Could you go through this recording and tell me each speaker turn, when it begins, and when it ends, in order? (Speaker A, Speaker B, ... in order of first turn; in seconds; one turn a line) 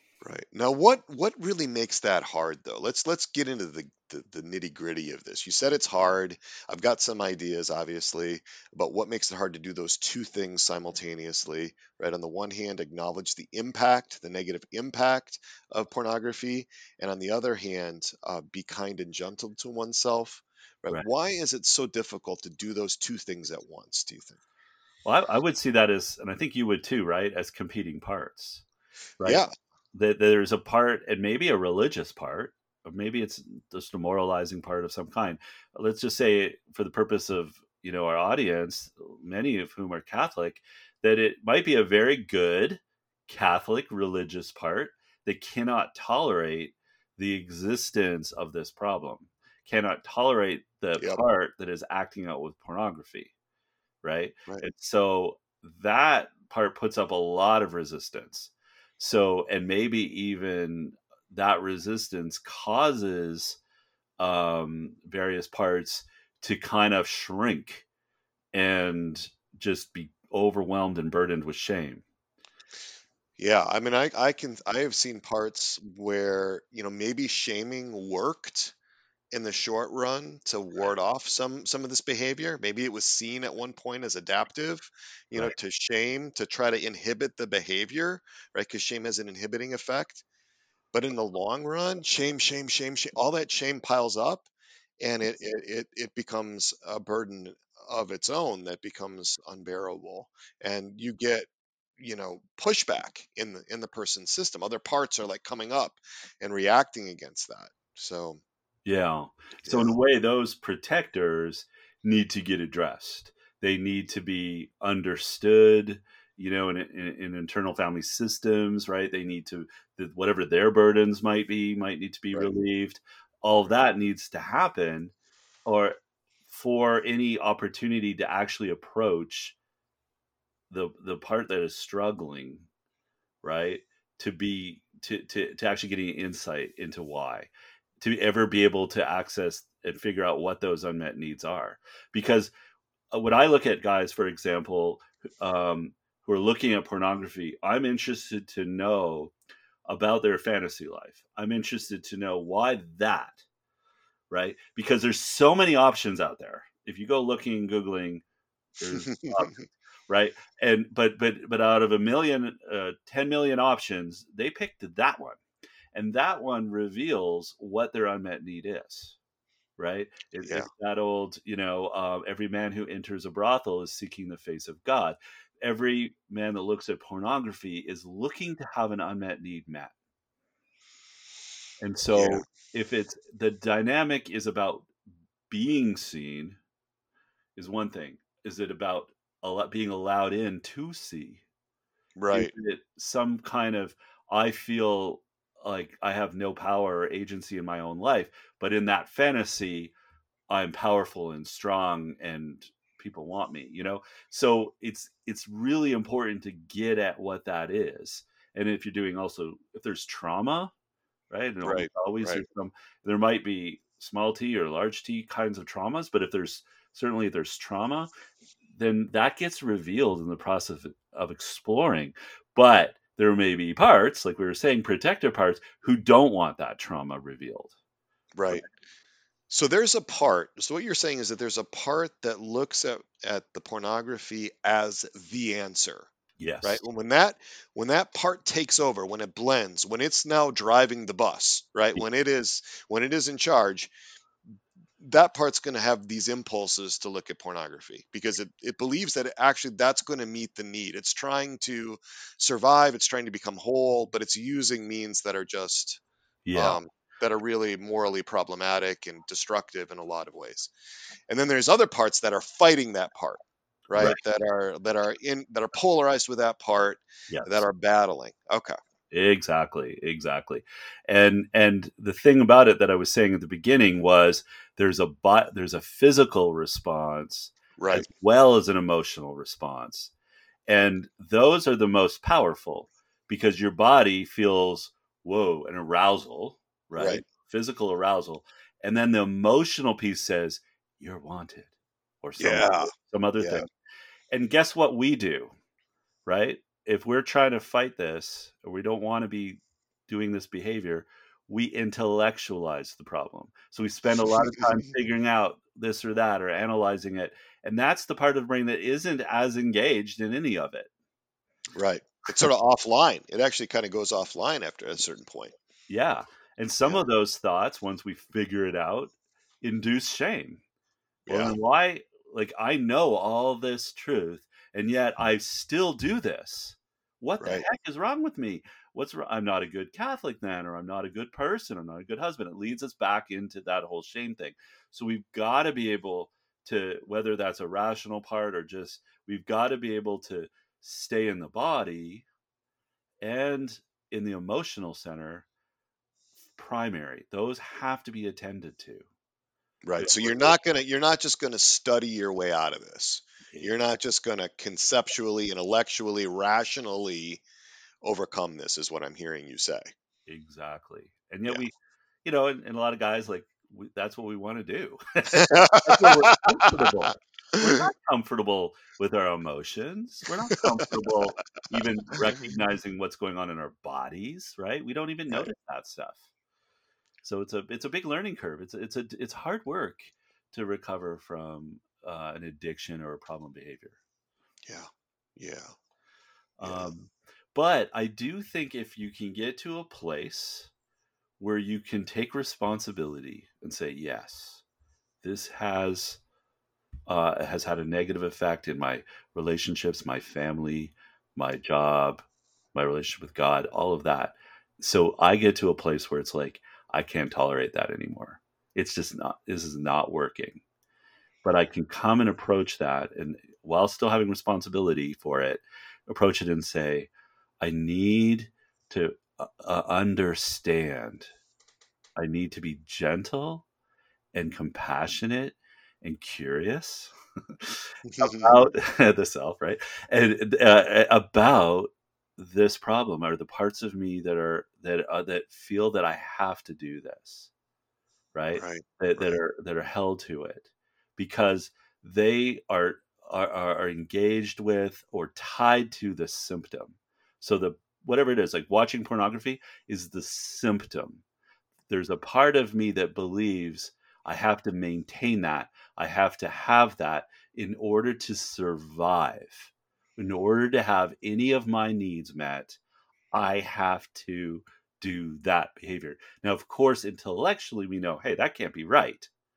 Speaker A: 0.2-24.4
Speaker B: 25.1-28.6
Speaker B: 29.2-53.3
Speaker A: 29.2-29.5
Speaker A: 51.0-51.2
Speaker B: 54.0-63.6
Speaker B: 64.2-67.8
Speaker B: 68.5-72.0
Speaker A: 73.4-78.7
Speaker A: 79.3-90.2
Speaker A: 90.9-94.5
Speaker A: 95.0-108.4
Speaker B: 108.8-125.1
Speaker A: 109.6-109.9
Speaker B: 125.7-126.0
Speaker B: 126.5-129.6
Speaker B: 130.7-132.7
Speaker B: 133.4-142.5
Speaker B: 143.1-149.3
Speaker B: 149.9-153.4
Speaker B: 154.3-158.2
Speaker B: 158.8-165.4
Speaker A: 159.0-159.6
Speaker B: 165.9-169.2
Speaker B: 169.8-179.9
Speaker A: 170.4-170.7
Speaker B: 181.8-184.9
Speaker A: 182.2-182.4
Speaker B: 185.5-186.6
Speaker B: 187.6-191.4
Speaker A: 192.2-192.5
Speaker B: 192.3-199.9
Speaker B: 200.5-210.7
Speaker B: 211.3-218.1
Speaker A: 211.6-212.4
Speaker B: 218.8-227.7
Speaker A: 228.3-228.7
Speaker A: 229.5-236.1
Speaker B: 236.4-236.8
Speaker A: 236.6-243.9
Speaker A: 245.0-256.0
Speaker B: 256.5-256.8
Speaker A: 256.5-260.7
Speaker A: 261.3-268.8
Speaker B: 267.3-267.7
Speaker B: 269.1-280.1
Speaker A: 277.8-278.1
Speaker B: 280.7-293.7
Speaker A: 286.9-287.2
Speaker A: 292.4-293.7
Speaker B: 294.3-295.5
Speaker B: 296.3-310.9
Speaker A: 304.3-304.9
Speaker A: 311.8-315.6
Speaker B: 315.9-320.6
Speaker A: 321.3-321.6
Speaker B: 321.3-342.3
Speaker A: 327.4-327.7
Speaker B: 343.2-345.5
Speaker B: 346.6-349.1
Speaker A: 349.8-357.4
Speaker B: 350.0-350.6
Speaker A: 358.0-359.9
Speaker B: 360.3-376.2
Speaker A: 365.3-366.4
Speaker A: 367.6-367.8
Speaker B: 377.2-384.0
Speaker A: 384.7-385.7
Speaker B: 386.6-390.7
Speaker A: 386.6-386.9
Speaker B: 391.4-394.6
Speaker B: 395.2-396.2
Speaker B: 397.1-410.6
Speaker B: 411.4-417.1
Speaker B: 417.6-421.3
Speaker B: 422.2-423.7
Speaker B: 424.3-437.5
Speaker A: 428.1-428.6
Speaker B: 438.3-451.2
Speaker A: 438.6-439.4
Speaker B: 451.9-462.8
Speaker B: 463.3-469.3